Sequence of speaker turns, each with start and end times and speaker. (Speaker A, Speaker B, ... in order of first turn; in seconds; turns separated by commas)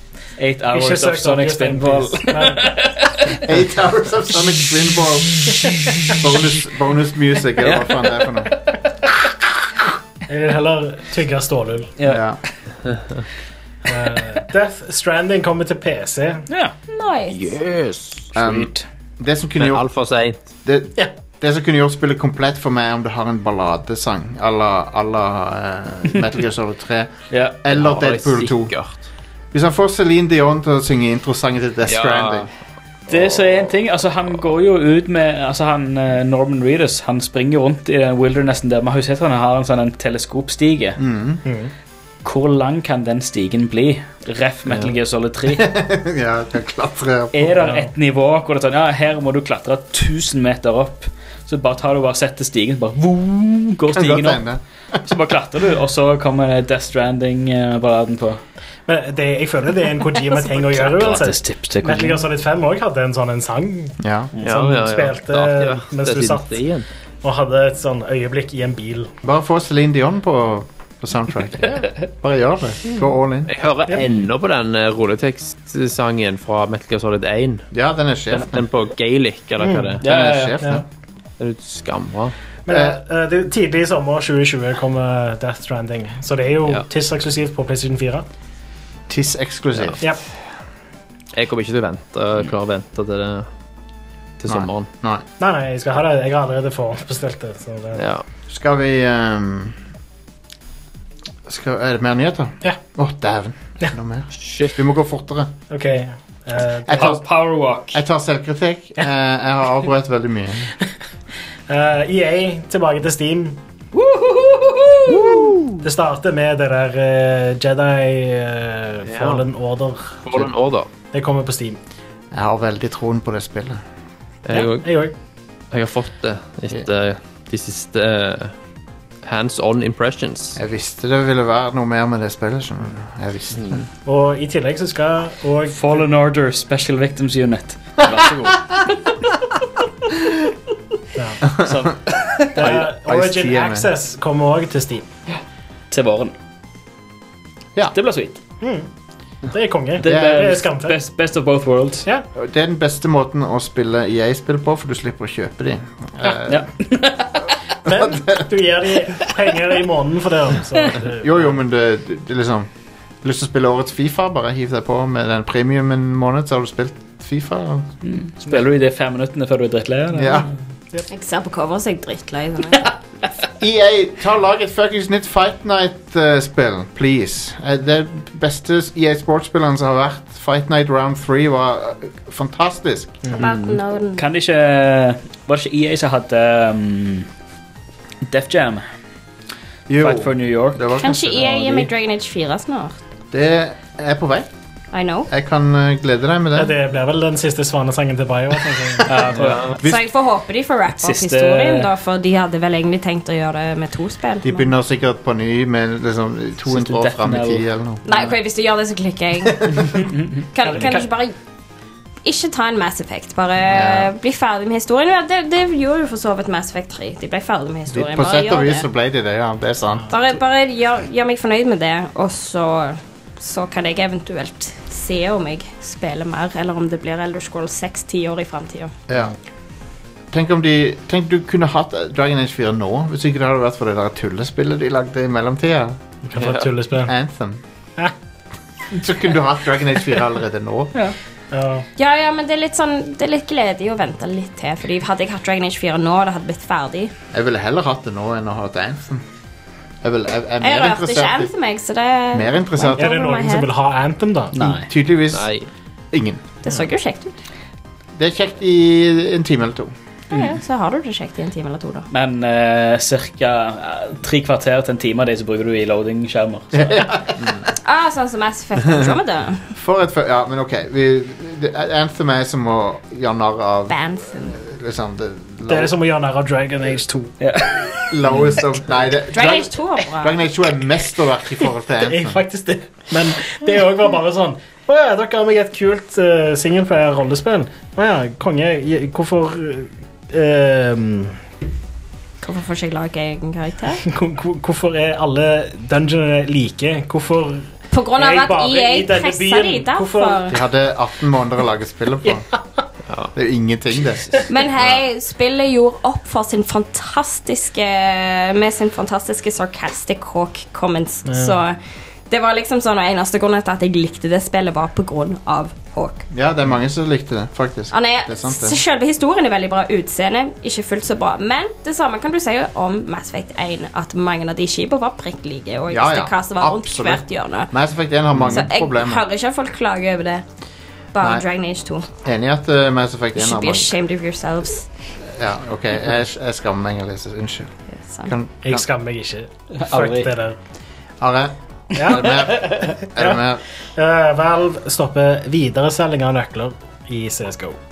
Speaker A: 0.4-3.4, Speaker B: 0.7-2.7, Speaker C: 3.4-5.5, Speaker C: 6.0-8.5, Speaker B: 10.3-11.9, Speaker A: 12.0-12.2, Speaker C: 12.1-12.4, Speaker B: 13.9-16.4, Speaker A: 16.5-16.7, Speaker D: 16.9-17.6, Speaker E: 17.3-18.3, Speaker A: 18.3-18.8, Speaker C: 18.3-19.9, Speaker E: 19.6-20.4, Speaker C: 20.6-28.7, Speaker E: 27.7-29.0, Speaker C: 29.5-32.5, Speaker E: 31.9-32.5, Speaker A: 33.1-41.0, Speaker C: 41.0-41.4, Speaker B: 41.5-41.7, Speaker A: 42.2-45.6, Speaker C: 45.5-47.6, Speaker A: 47.3-54.4, Speaker B: 47.6-47.9, Speaker C: 53.9-54.6, Speaker A: 55.0-58.4, Speaker B: 58.9-66.6, Speaker A: 60.6-62.2, Speaker C: 64.0-64.3, Speaker A: 64.4-64.6, Speaker E: 64.4-66.8, Speaker B: 67.2-69.1, Speaker C: 69.2-73.5, Speaker E: 73.5-77.7, Speaker C: 77.7-78.6, Speaker E: 78.3-80.0, Speaker C: 80.0-80.8, Speaker A: 80.0-80.7, Speaker E: 81.4-82.3, Speaker B: 82.7-88.2, Speaker C: 82.7-83.0, Speaker C: 89.1-90.2, Speaker E: 91.3-93.5, Speaker E: 94.4-94.9, Speaker C: 94.5-95.2, Speaker B: 95.4-98.0, Speaker E: 98.0-98.2, Speaker C: 98.5-99.8, Speaker C: 101.5-105.5, Speaker E: 104.3-104.7, Speaker B: 105.7-107.2, Speaker C: 106.9-107.2, Speaker A: 107.0-108.0, Speaker C: 107.9-110.7, Speaker B: 111.7-113.6, Speaker A: 114.1-114.8, Speaker B: 115.2-120.2, Speaker E: 119.0-119.4, Speaker E: 120.2-120.9, Speaker B: 121.1-121.8, Speaker C: 122.3-123.8, Speaker E: 124.4-124.9, Speaker B: 124.5-125.1, Speaker E: 125.7-128.5, Speaker E: 129.2-130.6, Speaker C: 130.6-133.8, Speaker B: 134.0-136.0, Speaker A: 135.7-138.6, Speaker B: 141.2-141.5, Speaker C: 141.6-141.9, Speaker A: 141.6-142.8, Speaker C: 142.5-143.9, Speaker B: 142.6-145.1, Speaker A: 145.9-146.3, Speaker A: 147.9-148.4, Speaker B: 148.6-148.9, Speaker B: 149.4-151.0, Speaker A: 150.0-152.1, Speaker C: 150.0-150.5, Speaker C: 152.3-156.7, Speaker A: 156.4-157.5, Speaker B: 157.8-161.4, Speaker C: 157.9-158.4, Speaker C: 161.2-162.7, Speaker C: 163.2-167.9, Speaker A: 168.0-170.5, Speaker C: 170.1-170.5, Speaker D: 171.1-172.9, Speaker C: 173.6-183.2, Speaker D: 183.4-184.2, Speaker E: 183.4-183.7, Speaker A: 184.2-187.3, Speaker A: 188.2-188.8, Speaker C: 189.9-191.9, Speaker A: 190.0-190.8, Speaker D: 191.0-192.9, Speaker C: 193.3-194.5, Speaker D: 194.9-195.3, Speaker C: 195.3-196.7, Speaker B: 196.5-199.2, Speaker A: 199.1-199.8, Speaker E: 199.4-199.7, Speaker D: 199.8-204.7, Speaker A: 201.0-201.9, Speaker C: 204.4-208.3, Speaker A: 206.7-207.6, Speaker D: 208.0-209.9, Speaker D: 210.5-211.3, Speaker D: 212.2-218.9, Speaker C: 213.7-214.1, Speaker C: 217.9-220.1, Speaker D: 220.1-228.9, Speaker C: 229.1-229.3, Speaker C: 230.3-236.0, Speaker B: 236.3-237.1, Speaker E: 236.4-236.7, Speaker C: 237.0-237.6, Speaker C: 238.9-240.9, Speaker B: 241.5-241.8, Speaker D: 241.9-247.1, Speaker C: 247.3-249.2, Speaker C: 250.0-251.5, Speaker D: 250.6-253.7, Speaker C: 252.3-253.2, Speaker B: 252.9-254.7, Speaker A: 254.5-254.9, Speaker C: 254.6-255.5, Speaker E: 255.3-255.7, Speaker C: 256.1-256.4, Speaker D: 256.6-257.3, Speaker C: 258.1-259.9, Speaker D: 260.3-262.1, Speaker A: 262.1-267.1, Speaker C: 266.7-267.6, Speaker D: 267.8-269.6, Speaker C: 269.7-275.9, Speaker D: 273.9-274.6, Speaker B: 275.7-277.3, Speaker A: 277.4-278.1, Speaker C: 278.1-279.7, Speaker D: 279.3-280.4, Speaker C: 280.2-282.4, Speaker B: 282.0-291.4, Speaker D: 292.4-294.0, Speaker B: 294.1-300.5, Speaker D: 297.9-300.6, Speaker C: 300.5-302.4, Speaker C: 303.3-304.2, Speaker D: 304.5-311.8, Speaker B: 311.3-311.6, Speaker D: 312.3-316.2, Speaker C: 316.3-318.8, Speaker D: 317.9-327.7, Speaker C: 325.9-329.2, Speaker D: 328.4-330.4, Speaker D: 331.1-332.1, Speaker C: 331.2-331.4, Speaker C: 332.2-333.9, Speaker D: 333.3-334.9, Speaker C: 335.2-337.7, Speaker D: 337.9-338.3, Speaker C: 338.2-338.9, Speaker B: 338.6-340.6, Speaker A: 339.8-340.3, Speaker C: 341.2-343.6, Speaker B: 341.9-343.4, Speaker B: 343.9-347.8